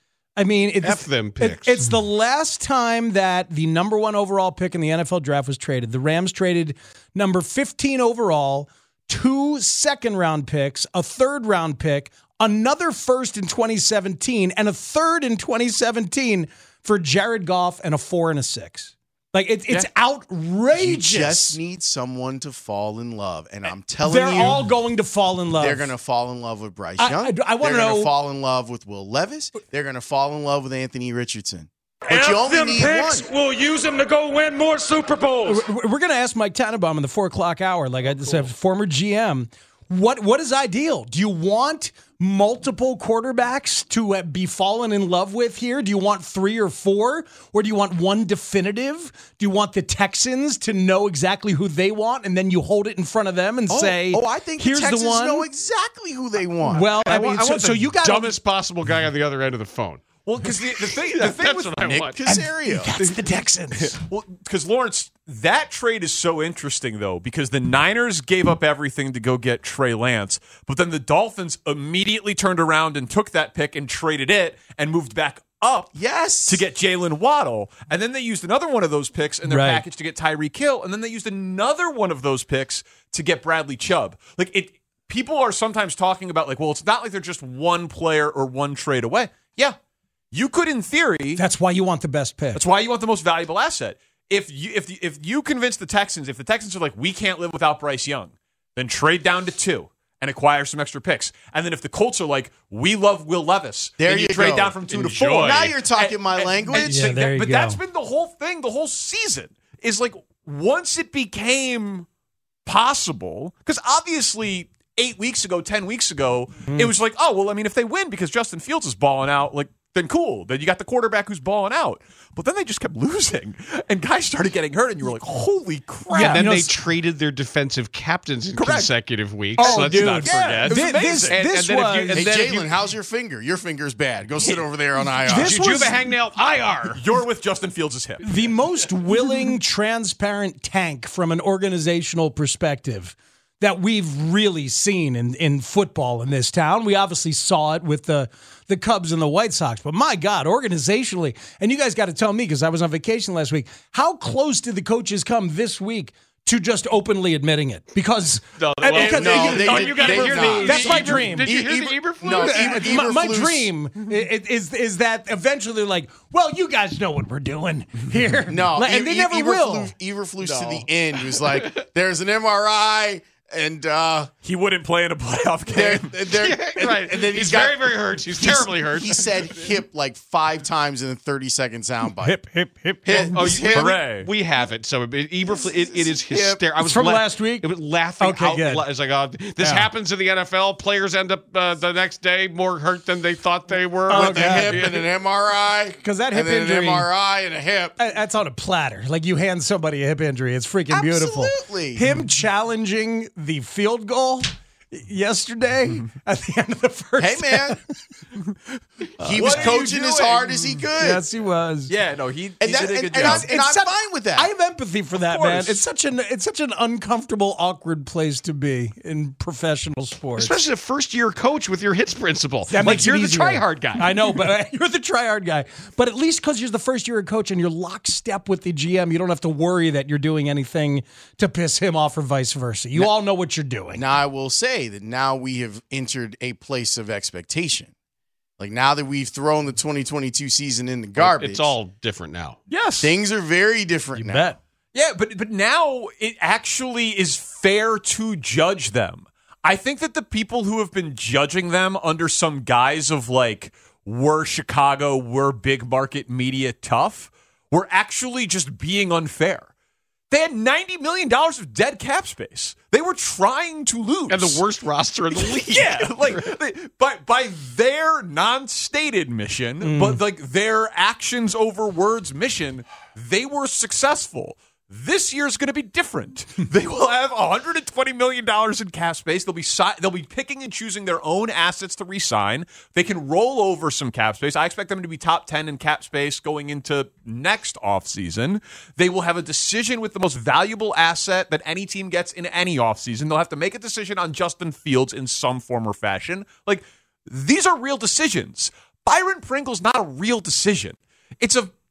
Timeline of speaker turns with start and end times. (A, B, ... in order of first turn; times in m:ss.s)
0:00.4-0:21.6 A
0:00.8-0:01.8 B
0:20.7-0:24.7 C
0:24.0-0:25.9 A
0:25.6-0:33.3 C
0:27.0-0:28.1 A
0:32.0-0:35.6 D
0:35.4-0:55.4 A
0:53.7-0:56.9 C
0:56.6-0:58.4 A
0:56.9-1:02.2 B
1:00.2-1:02.1 E
1:01.8-1:02.9 C
1:02.2-1:04.0 A
1:03.9-1:15.9 E
1:15.9-1:16.6 C
1:16.4-1:29.8 E
1:19.5-1:19.8 A
1:30.3-1:31.4 E
1:31.4-1:32.6 A
1:32.5-1:52.1 E
1:44.0-1:44.8 C
1:44.9-1:45.7 B
1:45.4-1:47.1 C
1:46.7-1:47.8 A
1:52.6-2:06.5 E
2:06.1-2:06.7 A
2:06.1-2:12.7 B
2:08.5-2:08.9 E
2:09.6-2:11.4 E
2:09.6-2:12.3 A
2:12.1-2:15.6 C
2:15.3-2:16.0 A
2:15.3-2:17.0 B
2:16.9-2:18.3 E
2:18.2-2:41.5 A
2:38.6-2:42.9 B
2:38.9-2:43.7 C
2:38.9-2:41.1 E
2:42.2-2:49.9 A
2:48.5-2:54.3 C
2:54.4-2:56.3 E
2:55.7-3:02.4 C
2:56.3-2:59.3 B
3:02.2-3:03.3 A
3:03.0-3:04.0 C
3:03.1-3:15.0 B
3:03.6-3:04.3 E
3:05.6-3:06.6 C
3:06.8-3:08.8 A
3:09.6-3:09.9 A
3:14.1-3:14.8 A
3:14.1-3:18.0 C
3:16.0-3:17.1 A
3:18.0-3:27.8 A
3:20.9-3:22.0 C
3:27.2-3:27.8 C
3:29.2-3:29.7 A
3:29.2-3:31.2 C
3:29.3-3:30.8 E
3:31.0-3:31.9 A
3:31.9-3:33.5 E
3:32.6-3:34.5 C
3:33.2-3:40.6 A
3:35.2-3:35.8 E
3:40.4-3:44.4 B
3:42.7-3:54.0 A
3:53.9-3:57.9 C
3:58.6-4:01.7 C
4:01.2-4:02.6 B
4:02.7-4:03.2 E
4:03.0-4:04.5 C
4:04.2-4:04.6 A
4:04.9-4:19.7 E
4:20.3-4:24.6 E
4:24.3-4:26.4 B
4:25.3-5:01.7 E
4:29.8-4:30.2 A